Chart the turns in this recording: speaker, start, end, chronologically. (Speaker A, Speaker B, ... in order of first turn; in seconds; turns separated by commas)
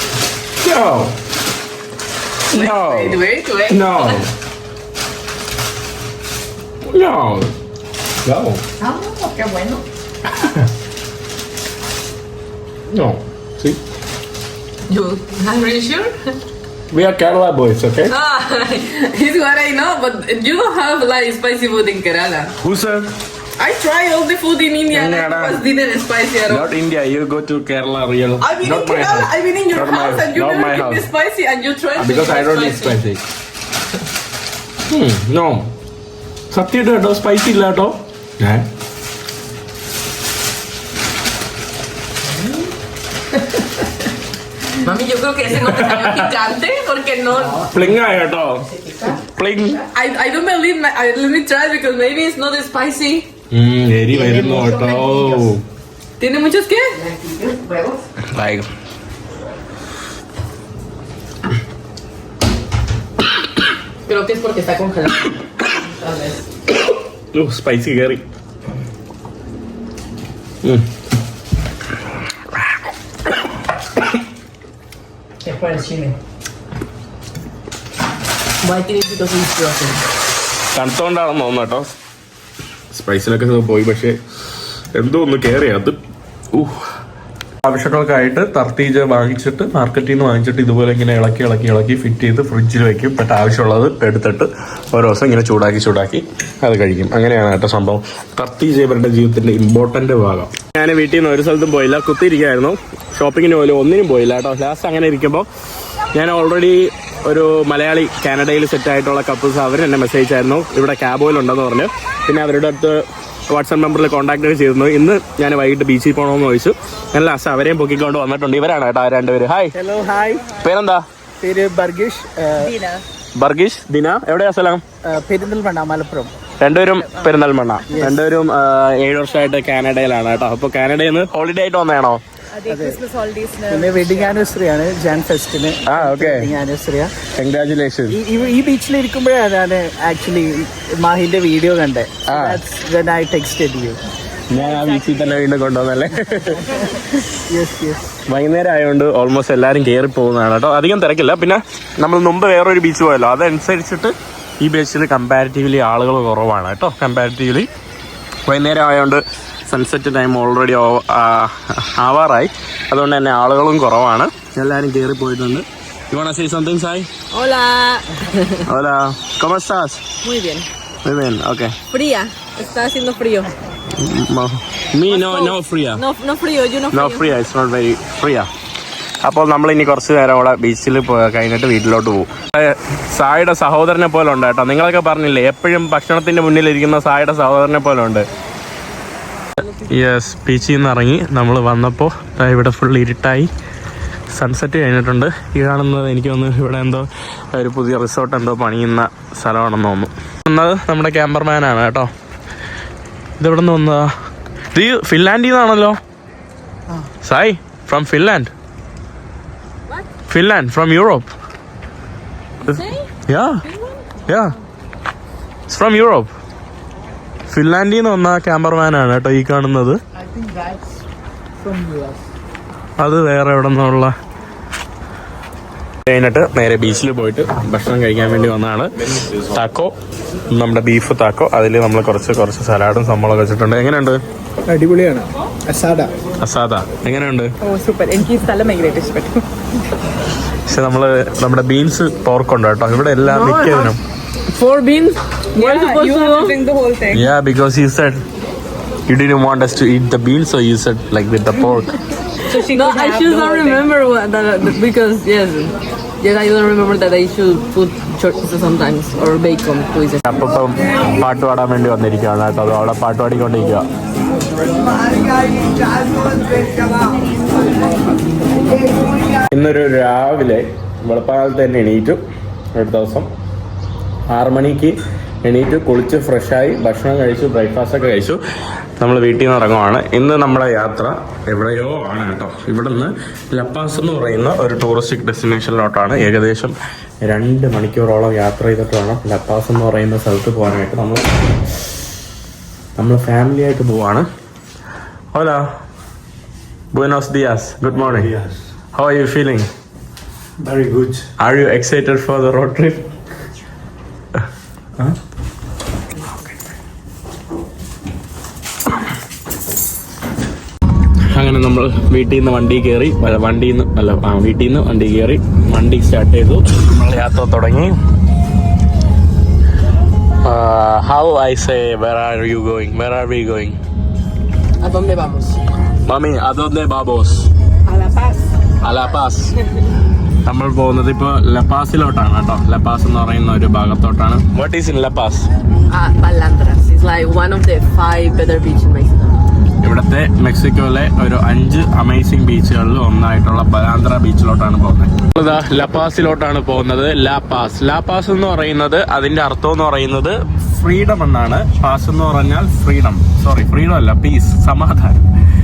Speaker A: 0.6-1.1, Speaker A: 2.5-4.3, Speaker B: 2.5-4.2, Speaker A: 6.9-7.5, Speaker A: 8.2-8.6, Speaker C: 8.8-9.8, Speaker A: 12.9-13.8, Speaker B: 14.9-16.4, Speaker A: 16.9-18.1, Speaker B: 18.1-22.5, Speaker A: 22.6-23.1, Speaker B: 23.6-26.7, Speaker A: 24.9-25.6, Speaker A: 26.5-31.1, Speaker B: 28.4-33.0, Speaker A: 32.0-33.2, Speaker A: 34.9-35.7, Speaker A: 36.5-38.7, Speaker B: 44.8-47.7, Speaker A: 45.6-46.3, Speaker C: 47.5-48.1, Speaker A: 47.7-48.7, Speaker C: 48.7-49.2, Speaker A: 49.3-49.8, Speaker B: 49.9-53.3, Speaker A: 53.5-55.6, Speaker C: 54.1-55.5, Speaker B: 56.2-57.0, Speaker C: 57.0-58.1, Speaker A: 58.3-58.7, Speaker C: 64.1-66.4, Speaker B: 64.2-65.0, Speaker A: 67.3-68.2, Speaker A: 70.6-70.9, Speaker C: 75.4-76.2, Speaker B: 78.6-80.0, Speaker A: 80.7-81.9, Speaker A: 82.9-84.2, Speaker A: 85.0-86.0, Speaker A: 86.5-86.8, Speaker A: 87.6-105.5, Speaker A: 106.1-119.8, Speaker D: 119.7-120.5, Speaker A: 120.6-121.0, Speaker D: 121.4-122.7, Speaker E: 122.6-123.0, Speaker A: 123.3-124.8, Speaker D: 125.0-126.3, Speaker A: 126.6-132.2, Speaker E: 126.8-127.3, Speaker D: 127.9-128.2, Speaker E: 132.6-134.4, Speaker D: 132.7-133.0, Speaker D: 133.7-137.1, Speaker A: 135.9-136.5, Speaker A: 137.3-138.2, Speaker D: 138.1-144.0, Speaker A: 142.3-142.6, Speaker A: 144.5-146.7, Speaker E: 144.7-145.4, Speaker D: 146.6-148.1, Speaker A: 148.3-157.7, Speaker A: 158.5-167.1, Speaker B: 167.3-168.6, Speaker A: 168.7-170.1, Speaker B: 170.2-170.7, Speaker A: 171.0-171.8, Speaker B: 171.9-173.5, Speaker A: 173.9-176.0, Speaker B: 175.1-177.3, Speaker A: 176.9-178.5, Speaker A: 179.2-188.3, Speaker A: 189.7-193.5, Speaker A: 194.3-202.1, Speaker A: 203.4-204.1, Speaker A: 204.7-206.0, Speaker A: 207.2-208.5, Speaker A: 210.3-211.3, Speaker A: 212.6-213.6, Speaker B: 212.7-213.1, Speaker B: 213.7-214.0, Speaker A: 214.3-214.5, Speaker A: 215.7-216.3, Speaker A: 217.5-220.0, Speaker D: 220.3-220.8, Speaker D: 221.6-222.2, Speaker A: 223.0-224.1, Speaker A: 226.1-229.9, Speaker A: 230.5-234.2, Speaker D: 234.7-236.1, Speaker A: 236.4-237.5, Speaker E: 237.6-239.4, Speaker A: 240.7-244.0, Speaker B: 243.3-243.6, Speaker E: 243.4-243.9, Speaker B: 244.5-246.6, Speaker E: 245.6-247.2, Speaker A: 247.1-248.2, Speaker A: 249.1-251.9, Speaker E: 252.5-253.9, Speaker B: 252.5-260.2, Speaker A: 260.2-263.9, Speaker A: 269.5-272.2, Speaker A: 272.8-273.3, Speaker A: 274.3-278.4, Speaker A: 279.0-291.2, Speaker A: 292.9-294.2, Speaker A: 295.3-295.7, Speaker A: 296.9-298.3, Speaker D: 298.2-298.5, Speaker A: 298.9-299.7, Speaker D: 300.6-301.2, Speaker A: 301.4-303.1, Speaker A: 311.3-317.9, Speaker A: 320.4-323.8, Speaker B: 324.8-325.6, Speaker A: 326.1-327.5, Speaker B: 327.9-328.4, Speaker A: 328.8-329.5, Speaker A: 330.4-335.5, Speaker B: 335.9-339.4, Speaker A: 339.8-355.2